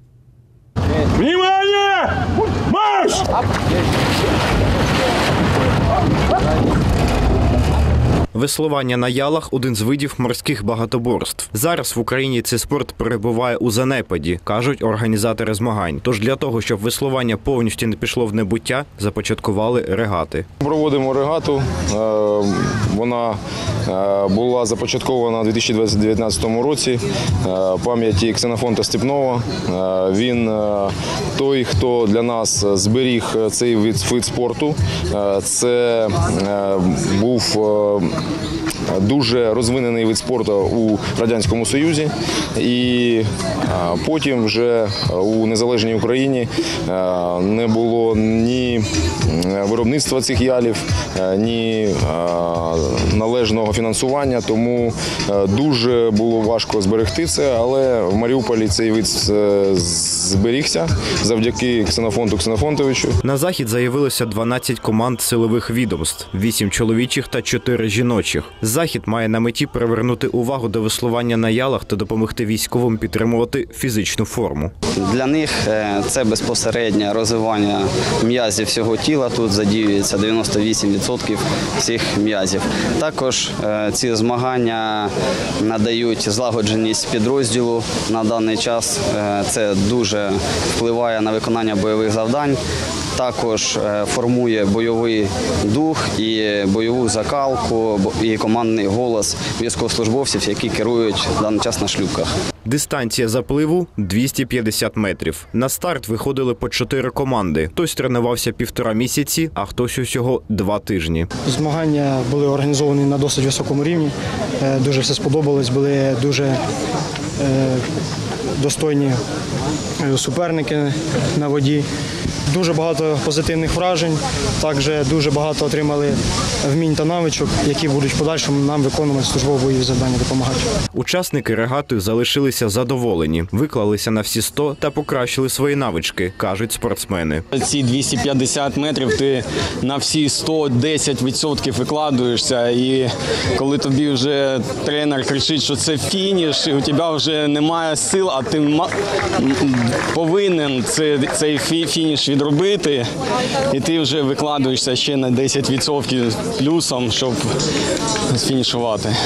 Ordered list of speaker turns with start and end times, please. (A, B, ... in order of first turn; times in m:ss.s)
0:08.3-0:20.4 A
0:20.6-0:38.1 B
0:38.9-1:03.2 B
1:03.2-1:14.7 A
1:15.0-1:32.6 C
1:33.2-1:42.3 C
1:42.6-1:51.3 A
1:51.4-1:56.6 D
1:57.4-1:57.8 D
1:58.6-1:59.2 D
2:00.0-2:01.8 D
2:02.5-2:10.6 D
2:10.9-2:17.4 A
2:17.5-2:33.0 E
2:33.7-2:37.4 E
2:38.3-2:39.1 E